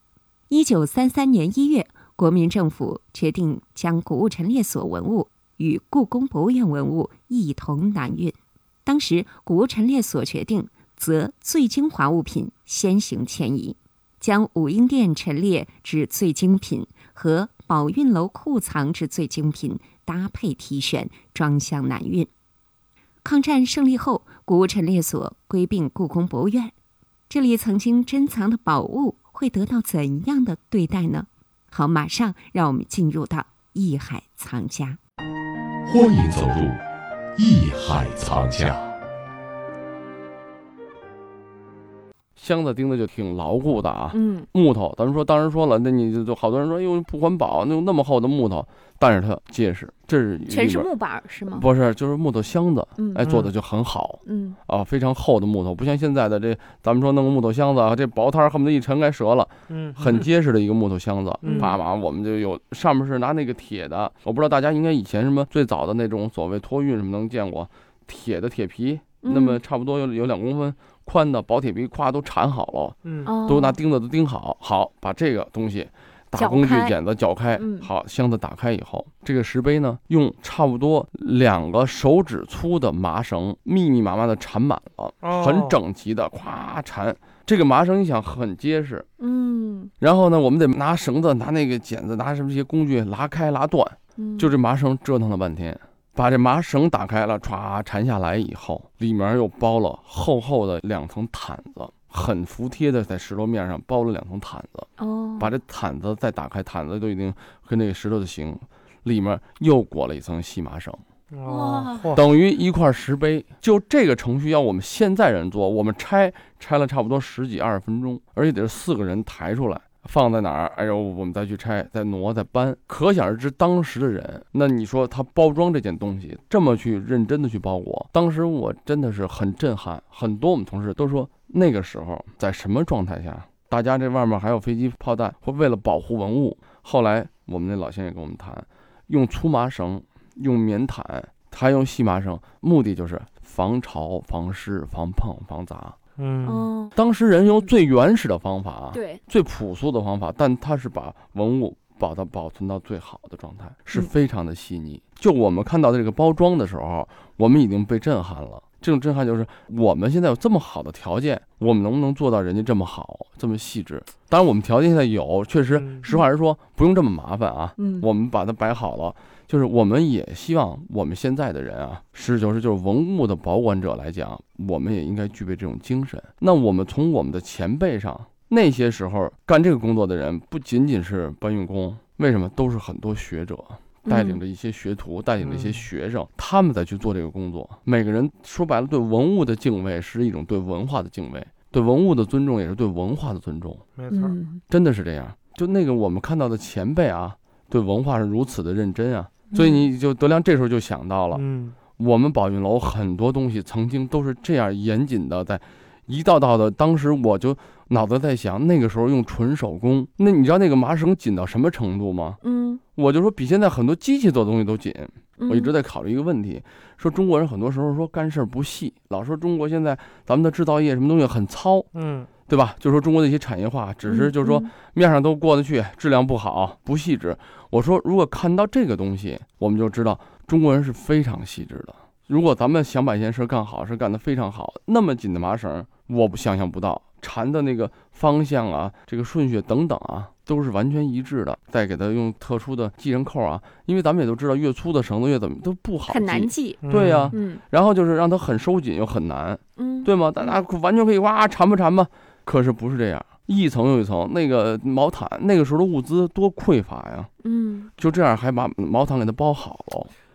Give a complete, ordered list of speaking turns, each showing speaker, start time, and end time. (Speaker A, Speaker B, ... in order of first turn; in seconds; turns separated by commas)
Speaker A: 0.5-22.3, Speaker A: 23.2-26.7, Speaker A: 27.3-35.0, Speaker B: 35.9-36.8, Speaker B: 37.4-38.9, Speaker C: 42.4-50.9, Speaker D: 44.1-44.5, Speaker D: 50.5-51.7, Speaker C: 51.5-89.1, Speaker D: 53.0-53.3, Speaker D: 54.2-54.6, Speaker E: 59.7-60.2, Speaker D: 61.4-61.7, Speaker E: 61.4-61.7, Speaker D: 69.2-69.6, Speaker E: 73.0-73.3, Speaker D: 73.2-73.8, Speaker D: 76.3-77.0, Speaker D: 77.6-77.9, Speaker E: 85.2-85.8, Speaker D: 89.2-89.9, Speaker C: 90.0-111.0, Speaker D: 94.2-94.5, Speaker D: 105.0-105.5, Speaker E: 111.3-112.2, Speaker D: 111.5-112.1, Speaker C: 112.1-146.0, Speaker E: 146.2-146.7, Speaker D: 146.4-146.9, Speaker C: 146.9-193.8, Speaker D: 148.9-149.2, Speaker E: 165.7-166.1, Speaker D: 167.8-168.0, Speaker D: 184.1-184.4, Speaker E: 185.4-185.8, Speaker E: 193.9-194.3, Speaker D: 194.1-194.6, Speaker C: 194.7-201.4, Speaker D: 199.5-199.9, Speaker E: 201.3-201.8, Speaker C: 202.0-212.4, Speaker D: 212.4-212.8, Speaker C: 212.9-221.9, Speaker D: 215.4-215.7, Speaker E: 221.9-222.3, Speaker C: 222.4-257.3, Speaker D: 224.1-224.7, Speaker D: 246.1-247.6, Speaker E: 246.8-247.3, Speaker D: 249.8-250.6, Speaker D: 257.4-257.9, Speaker C: 258.0-260.1